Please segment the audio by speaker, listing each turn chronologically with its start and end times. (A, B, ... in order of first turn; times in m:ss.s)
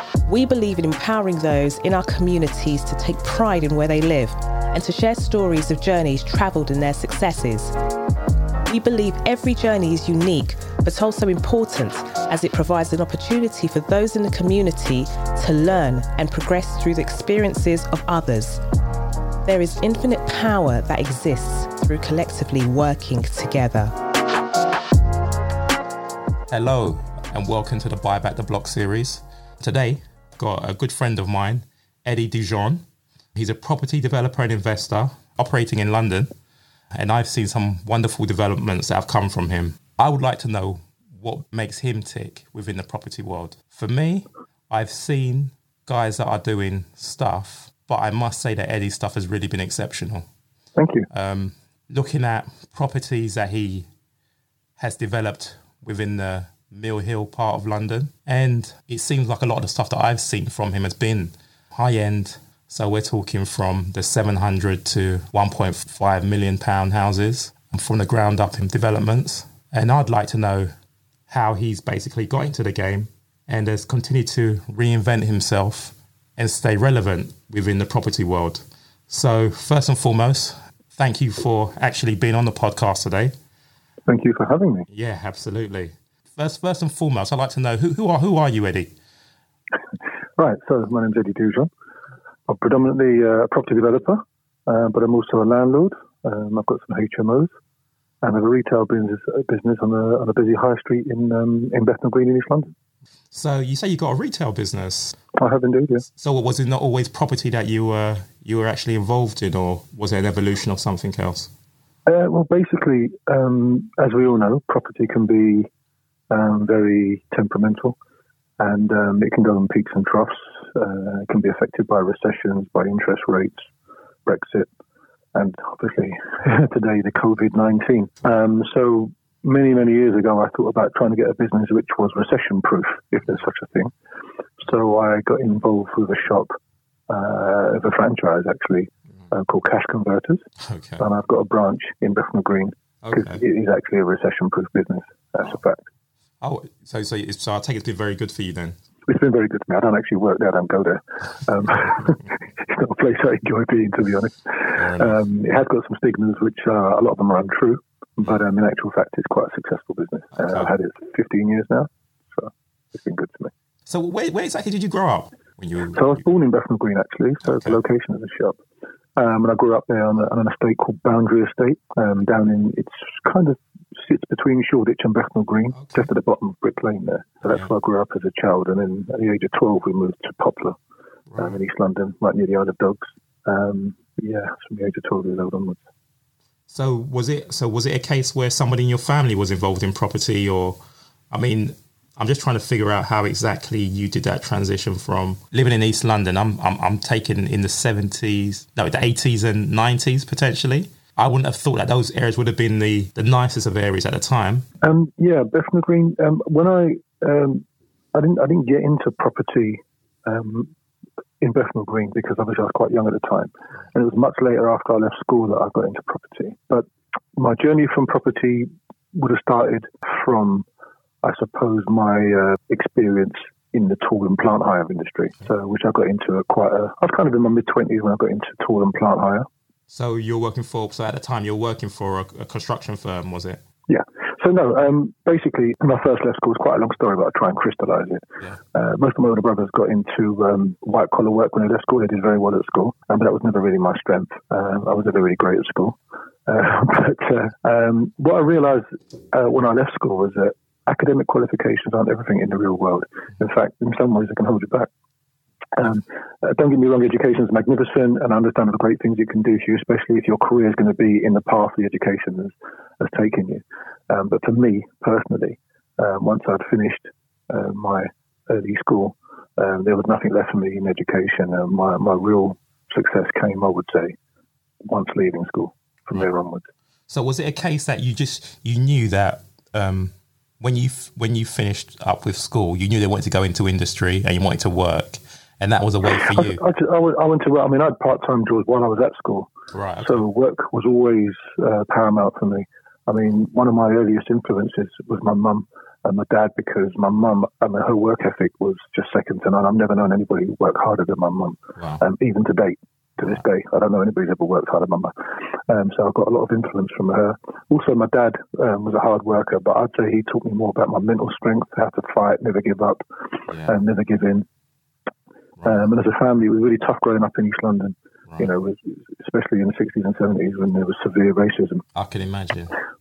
0:00.2-0:07.7 A
0:08.6-0:18.6 A
0:19.4-0:24.0 A
0:26.5-0:36.3 B
0:36.9-0:50.3 B
0:50.8-0:51.1 C
0:51.1-0:53.9 B
0:54.8-1:10.7 B
1:11.3-1:23.3 B
1:24.1-1:24.9 C
1:24.9-1:28.9 B
1:30.4-1:31.7 C
1:32.5-1:37.5 C
1:38.2-1:42.7 C
1:43.3-1:45.2 B
1:45.3-1:46.0 C
1:46.1-1:51.5 B
1:52.0-1:55.7 C
1:56.3-1:58.0 C
1:58.6-2:03.6 C
2:04.2-2:04.7 C
2:05.3-2:13.9 C
2:14.6-2:16.5 C
2:17.1-2:20.4 C
2:20.6-2:21.0 B
2:21.0-2:25.8 C
2:23.0-2:23.4 B
2:26.4-2:28.8 B
2:29.0-2:43.5 C
2:34.8-2:35.1 B
2:40.4-2:40.7 B
2:43.9-2:46.2 B
2:45.9-2:48.6 C
2:47.4-2:47.8 B
2:49.2-3:00.8 C
2:55.8-2:56.1 B
3:01.3-3:01.6 B
3:01.4-3:05.8 C
3:06.7-3:10.8 B
3:11.3-3:24.6 B
3:24.8-3:30.7 C
3:31.4-3:40.6 C
3:41.2-3:49.5 C
3:49.9-3:53.6 B
3:53.9-4:14.9 C
4:15.8-4:34.2 C
4:34.8-4:36.7 C
4:37.1-4:46.6 B
4:46.2-5:14.4 C
4:49.7-4:50.2 B
5:13.5-5:13.7 B
5:15.6-5:21.8 C
5:21.9-5:22.7 B